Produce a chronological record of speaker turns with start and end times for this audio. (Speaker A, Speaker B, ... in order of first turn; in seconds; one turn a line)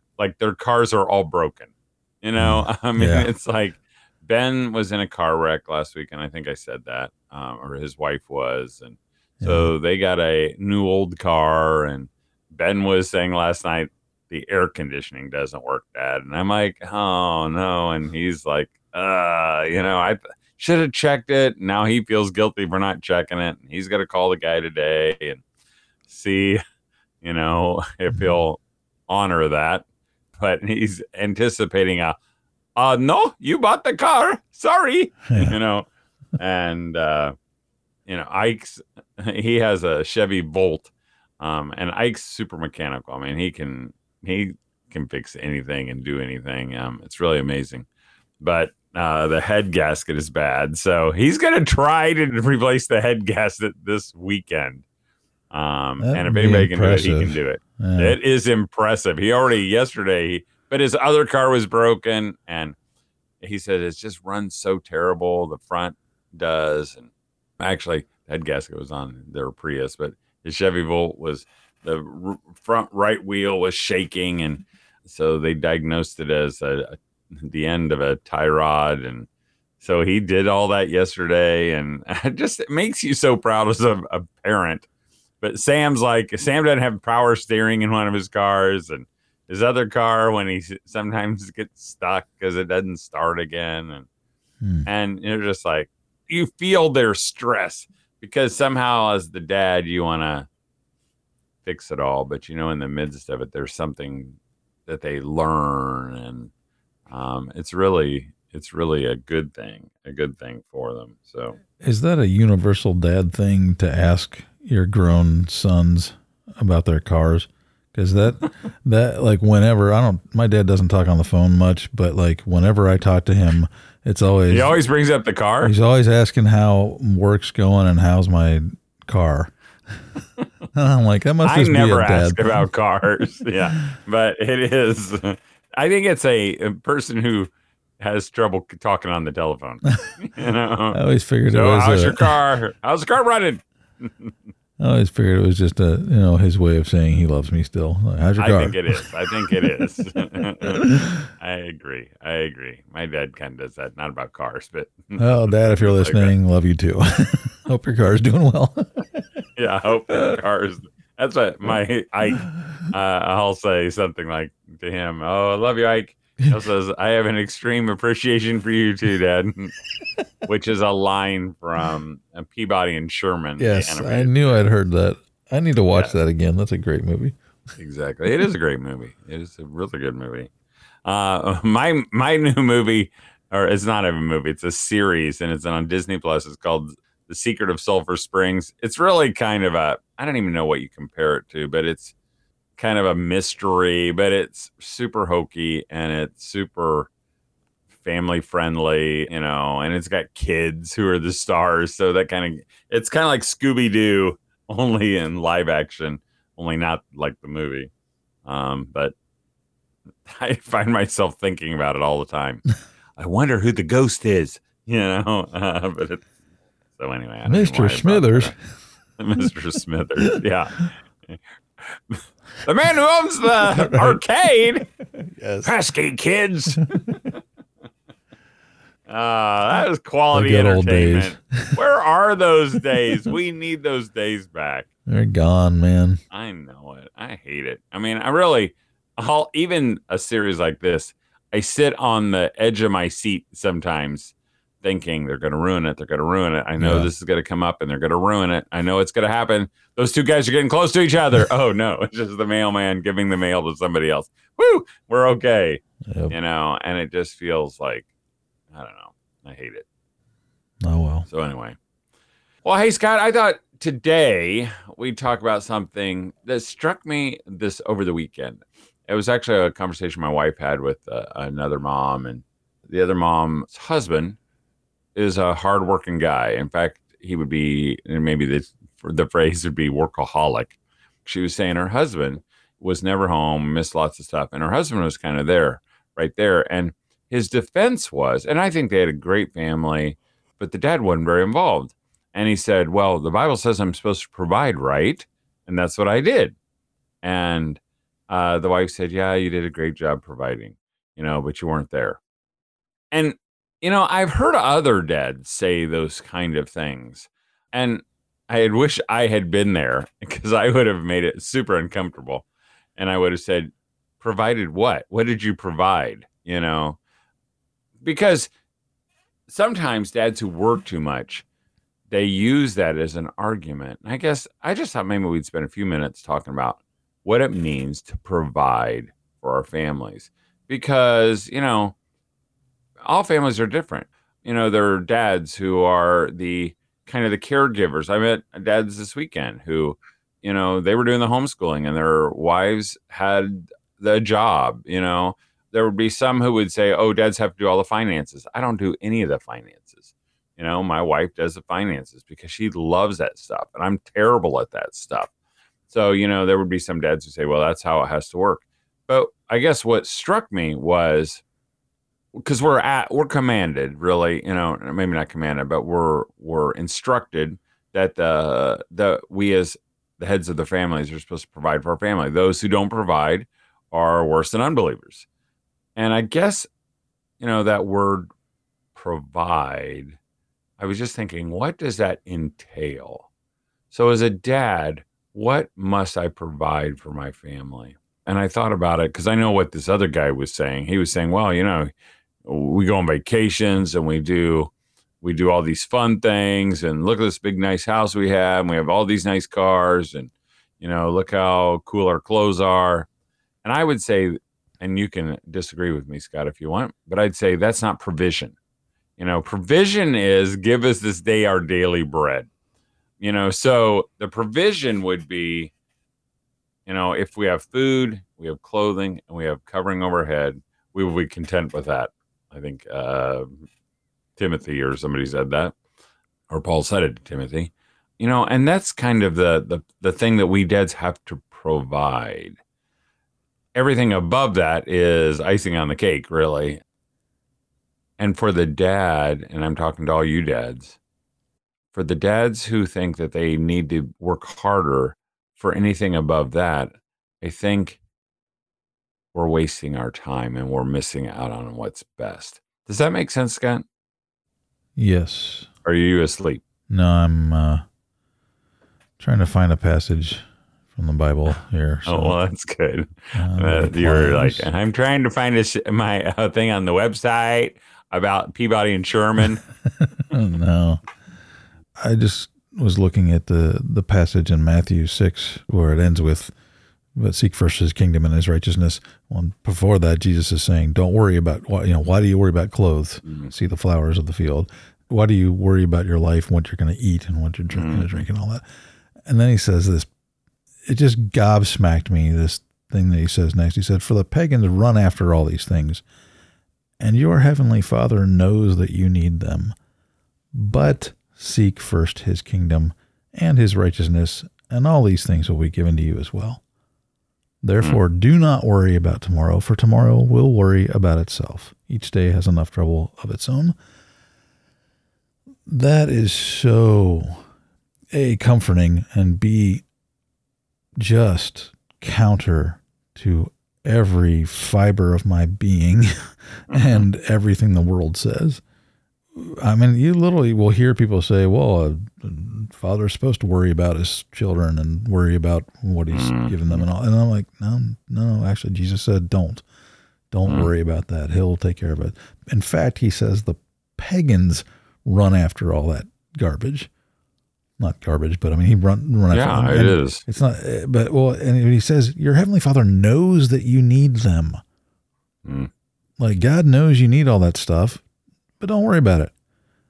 Speaker A: 0.2-25.4
Speaker B: 2.4-3.3
Speaker B: 9.4-9.7
Speaker A: 26.1-26.6
Speaker A: 27.2-32.2
Speaker A: 32.8-37.3
Speaker B: 35.3-35.6
Speaker A: 38.1-47.9
Speaker A: 48.4-54.9
Speaker A: 55.5-62.8
Speaker B: 56.0-58.2
Speaker A: 63.4-79.3
Speaker A: 79.8-84.9
Speaker A: 85.4-94.1
Speaker B: 94.6-94.9
Speaker A: 94.9-100.5
Speaker A: 101.6-106.5
Speaker A: 107.1-111.6
Speaker B: 111.8-124.8
Speaker A: 124.5-125.7
Speaker B: 125.6-129.5
Speaker B: 130.8-132.5
Speaker A: 131.4-144.3
Speaker B: 140.9-142.3
Speaker B: 144.8-149.0
Speaker A: 148.4-156.3
Speaker B: 149.6-149.9
Speaker B: 150.8-151.1
Speaker B: 155.2-159.3
Speaker A: 159.6-169.8
Speaker A: 170.4-174.6
Speaker B: 173.6-177.4
Speaker A: 175.9-176.2
Speaker A: 177.8-180.5
Speaker A: 181.1-192.1
Speaker A: 192.8-197.1
Speaker A: 198.0-207.9
Speaker A: 208.4-209.2
Speaker A: 210.3-212.6
Speaker A: 213.2-216.2
Speaker A: 217.0-218.6
Speaker B: 217.5-218.6
Speaker A: 219.2-224.9
Speaker B: 223.6-224.2
Speaker B: 224.9-225.7
Speaker A: 225.6-226.9
Speaker B: 226.9-227.3
Speaker A: 229.1-234.9
Speaker B: 230.3-231.8
Speaker B: 235.1-236.2
Speaker A: 236.3-258.1
Speaker B: 246.8-247.1
Speaker B: 256.1-256.3
Speaker A: 258.7-259.9
Speaker B: 260.8-261.3
Speaker A: 261.3-261.8
Speaker A: 262.6-274.4
Speaker A: 275.1-296.6
Speaker A: 297.2-297.8
Speaker A: 298.3-302.2
Speaker A: 303.1-312.5
Speaker A: 313.0-317.0
Speaker A: 318.0-318.5
Speaker A: 319.5-321.4
Speaker A: 322.1-331.9
Speaker A: 333.1-355.3
Speaker A: 355.9-361.4
Speaker A: 362.4-375.3
Speaker A: 376.0-376.7
Speaker A: 377.4-378.3
Speaker A: 378.9-380.2
Speaker A: 380.8-383.3
Speaker A: 383.9-391.9
Speaker A: 392.4-403.1
Speaker A: 403.6-408.6
Speaker A: 409.2-412.5
Speaker A: 413.2-415.7
Speaker A: 416.9-423.6
Speaker A: 424.4-425.8
Speaker A: 426.5-432.6
Speaker A: 433.8-436.8
Speaker A: 438.2-441.0
Speaker A: 441.9-448.0
Speaker A: 449.3-453.9
Speaker B: 455.0-455.7
Speaker A: 455.9-456.6
Speaker B: 456.9-457.8
Speaker B: 459.2-460.4
Speaker B: 460.9-462.4
Speaker A: 462.1-469.6
Speaker B: 463.4-464.7
Speaker B: 470.0-471.0
Speaker B: 472.0-476.5
Speaker B: 477.1-488.6
Speaker A: 483.2-483.5
Speaker A: 487.7-488.3
Speaker B: 489.2-490.1
Speaker B: 490.9-496.0
Speaker B: 497.0-499.8
Speaker B: 500.5-506.6
Speaker B: 507.6-513.8
Speaker B: 515.7-517.4
Speaker B: 518.1-519.8
Speaker B: 521.0-528.6
Speaker A: 526.7-527.0
Speaker B: 529.3-539.6
Speaker A: 536.1-536.9
Speaker B: 540.3-546.9
Speaker B: 547.8-554.6
Speaker A: 549.3-550.2
Speaker A: 555.5-555.7
Speaker B: 556.2-558.0
Speaker B: 558.6-559.3